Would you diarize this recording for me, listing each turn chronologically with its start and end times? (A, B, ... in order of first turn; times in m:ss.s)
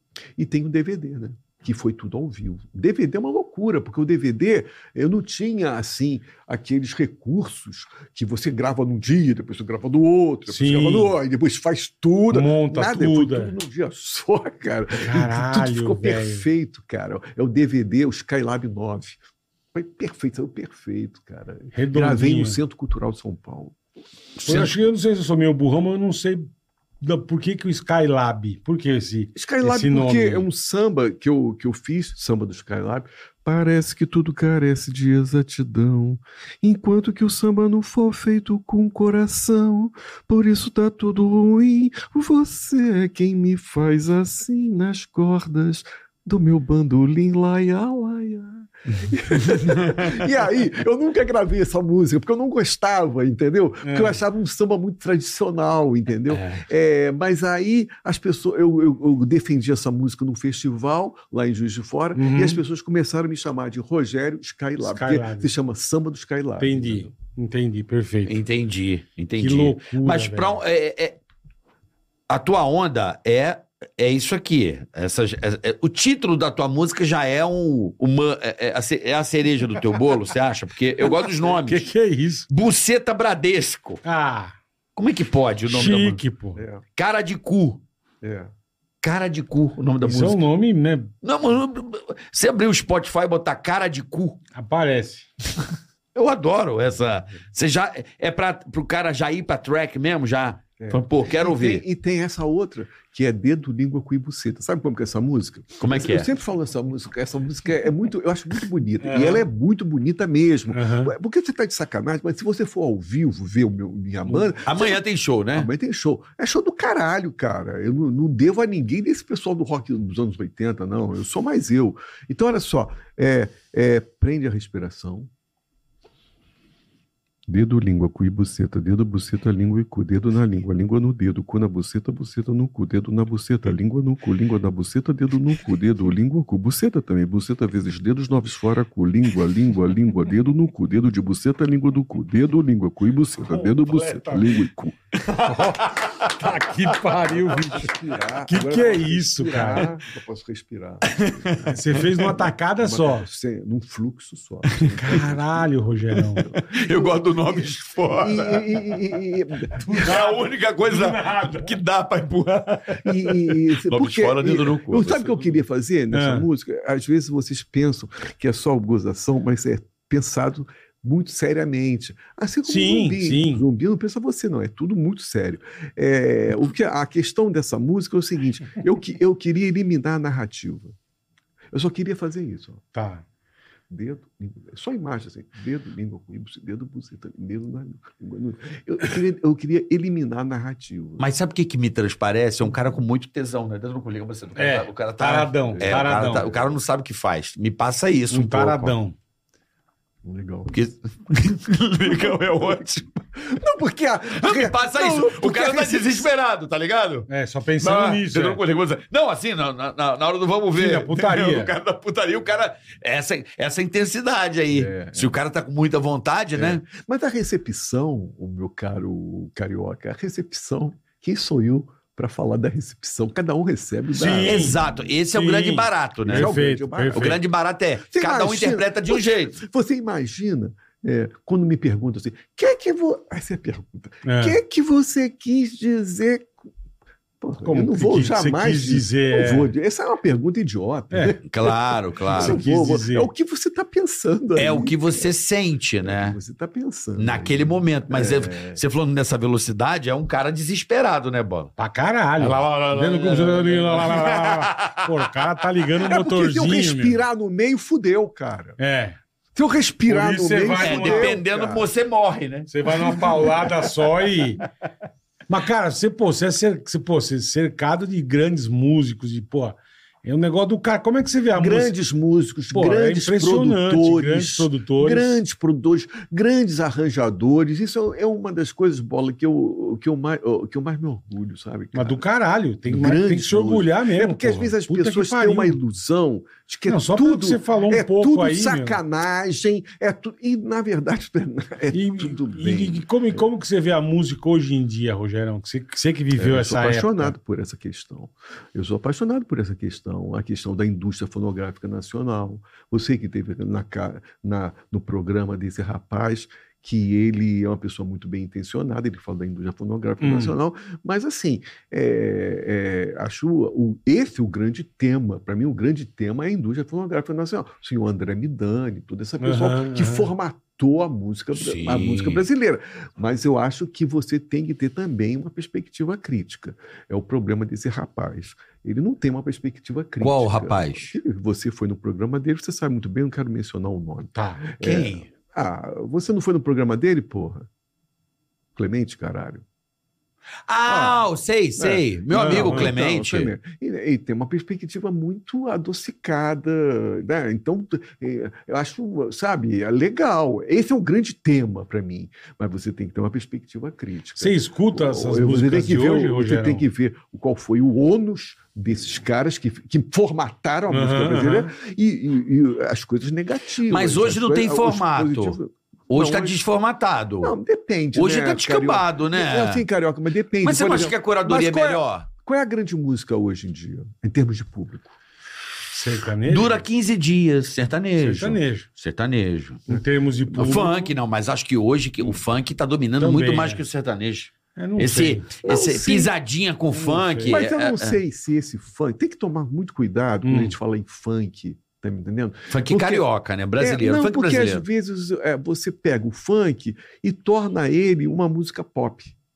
0:00.4-0:19.2 A
0:10.5-0:11.1 B
0:12.3-0:13.5 B
0:15.0-0:16.4 B
0:19.7-0:23.8 A
0:21.7-0:22.6 B
0:24.4-0:26.5 B
0:24.4-0:24.7 A
0:27.0-0:30.5 B
0:29.3-1:07.1 A
0:49.5-0:50.2 C
0:53.8-0:54.2 B
1:02.1-1:02.6 B
1:04.8-1:05.5 B
1:06.6-1:08.4 B
1:08.3-1:11.2 C
1:09.4-1:10.6 B
1:12.3-1:21.9 C
1:21.1-1:22.5 B
1:22.5-1:24.0 C
1:24.0-1:24.5 B
1:25.0-1:26.2 C
1:25.7-1:26.6 B
1:26.6-1:26.8 A
1:27.0-1:27.8 C
1:28.2-1:28.5 A
1:29.0-1:30.4 C
1:30.0-1:31.1 B
1:31.2-1:34.4 C
1:34.5-1:35.3 B
1:36.1-1:41.8 C
1:40.8-1:55.0 A
1:45.8-1:46.3 C
1:49.0-1:49.4 B
1:50.7-1:51.1 B
1:54.6-1:55.7 C
1:55.5-2:05.3 A
2:07.5-2:25.0 A
2:23.5-2:24.6 B
2:25.2-2:27.9 B
2:25.7-2:26.3 C
2:27.2-2:40.2 A
2:28.5-2:29.9 B
2:31.0-2:31.7 C
2:31.7-2:33.3 B
2:35.0-2:36.4 B
2:36.5-2:39.2 C
2:39.7-2:45.5 C
2:39.8-2:41.8 B
2:43.0-3:00.9 A
2:46.1-2:46.5 B
2:52.6-2:53.6 B
3:01.7-3:02.8 A
3:02.9-3:03.2 B
3:03.9-3:11.3 A
3:11.2-3:18.9 C
3:14.6-3:16.5 B
3:15.6-3:16.8 A
3:18.3-3:19.2 B
3:20.2-3:20.7 A
3:20.7-3:23.2 C
3:22.0-3:22.8 A
3:23.4-3:26.3 A
3:24.4-3:27.3 C
3:27.3-3:28.6 B
3:27.8-3:36.9 C
3:30.7-3:31.7 B
3:34.7-3:35.4 A
3:36.6-3:45.0 A
3:44.1-3:44.8 B
3:44.4-3:46.6 C
3:45.3-3:47.4 B
3:46.2-3:47.4 A
3:47.1-3:49.6 C
3:48.1-3:56.5 A
3:54.2-3:54.6 B
3:57.4-4:05.3 A
3:57.6-3:59.7 B
4:01.1-4:01.4 B
4:01.5-4:02.6 C
4:02.3-4:03.3 B
4:04.6-4:06.4 C
4:06.0-4:08.8 A
4:07.2-4:11.7 C
4:11.8-4:17.2 B
4:12.4-4:15.3 C
4:16.0-4:18.8 A
4:18.8-4:19.2 B
4:19.5-4:21.9 A
4:20.1-4:21.4 B
4:20.8-4:23.4 C
4:22.7-4:24.6 B
4:25.5-4:31.9 B
4:31.5-4:42.2 A
4:32.7-4:35.4 B
4:41.9-4:45.8 B
4:42.9-4:53.4 A
4:46.9-4:49.0 B
4:51.9-4:57.3 B
4:56.4-5:37.7 A
5:10.2-5:10.6 B
5:19.4-5:20.3 B
5:21.5-5:22.4 C
5:30.2-5:31.1 C
5:34.3-5:34.7 B
5:34.8-5:35.3 C
5:38.8-5:39.6 A
5:40.7-5:43.5 C
5:40.8-5:41.2 A
5:41.8-6:06.6 A
5:42.3-5:42.9 B
5:54.4-5:56.8 B
6:00.9-6:01.7 B
6:03.9-6:05.6 C
6:06.1-6:07.6 C
6:07.4-6:15.2 A
6:08.1-6:09.8 C
6:10.6-6:12.3 C
6:15.9-6:16.8 B
6:16.4-6:19.9 C
6:18.2-6:18.9 B
6:19.9-6:21.1 B
6:20.5-6:28.2 C
6:23.2-6:23.8 B
6:24.8-6:25.5 B
6:25.6-6:26.3 A
6:26.9-6:27.6 B
6:27.4-6:33.2 A
6:30.4-6:30.7 B
6:32.7-6:34.8 C
6:33.8-6:39.3 A